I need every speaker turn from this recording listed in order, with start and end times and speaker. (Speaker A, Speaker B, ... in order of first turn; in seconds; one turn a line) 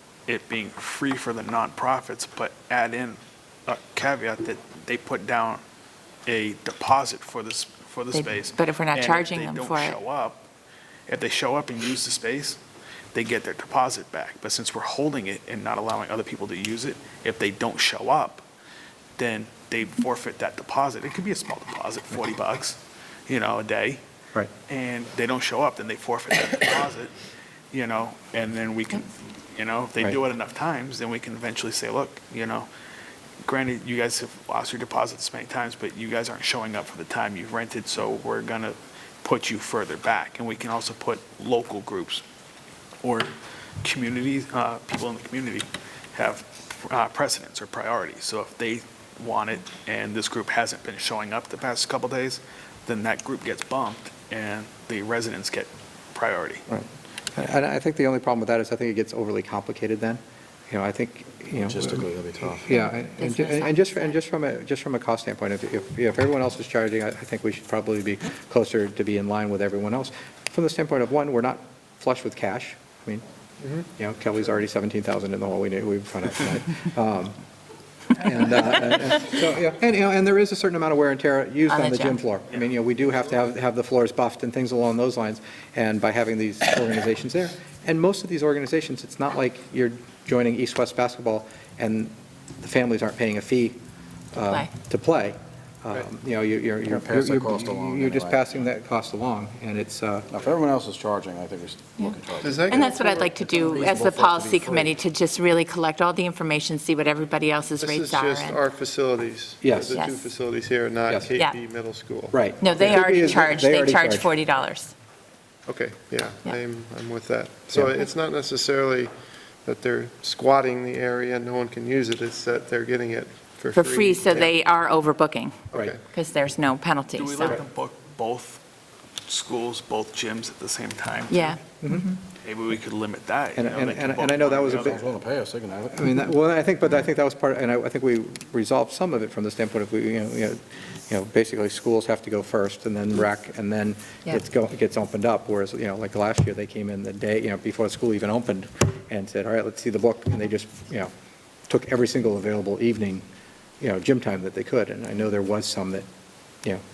Speaker A: 0.3-5.6
Speaker A: 6.2-10.4
Speaker B: 8.1-10.0
Speaker A: 11.1-12.6
Speaker A: 13.1-18.4
Speaker A: 19.2-24.0
Speaker A: 24.7-27.1
Speaker A: 27.7-32.7
Speaker A: 33.4-42.2
Speaker A: 43.0-43.3
Speaker A: 43.8-56.6
Speaker C: 56.7-73.2
Speaker D: 61.6-62.7
Speaker B: 62.7-64.0
Speaker C: 73.9-77.4
Speaker C: 78.1-93.8
Speaker B: 81.7-82.2
Speaker C: 94.3-100.3
Speaker D: 96.9-98.4
Speaker D: 100.3-105.0
Speaker B: 102.0-108.6
Speaker E: 102.4-103.0
Speaker E: 107.8-113.0
Speaker C: 109.6-109.9
Speaker B: 109.9-110.3
Speaker C: 112.3-114.3
Speaker B: 112.6-114.9
Speaker E: 115.7-119.1
Speaker E: 119.6-124.5
Speaker B: 123.7-127.6
Speaker E: 125.7-126.0
Speaker A: 127.1-128.6
Speaker A: 129.2-131.6
Speaker B: 131.3-132.2
Speaker C: 131.8-132.1
Speaker A: 132.4-135.0
Speaker C: 133.5-135.1
Speaker D: 134.7-136.2
Speaker C: 135.9-151.1
Speaker C: 151.7-153.2
Speaker C: 153.8-156.1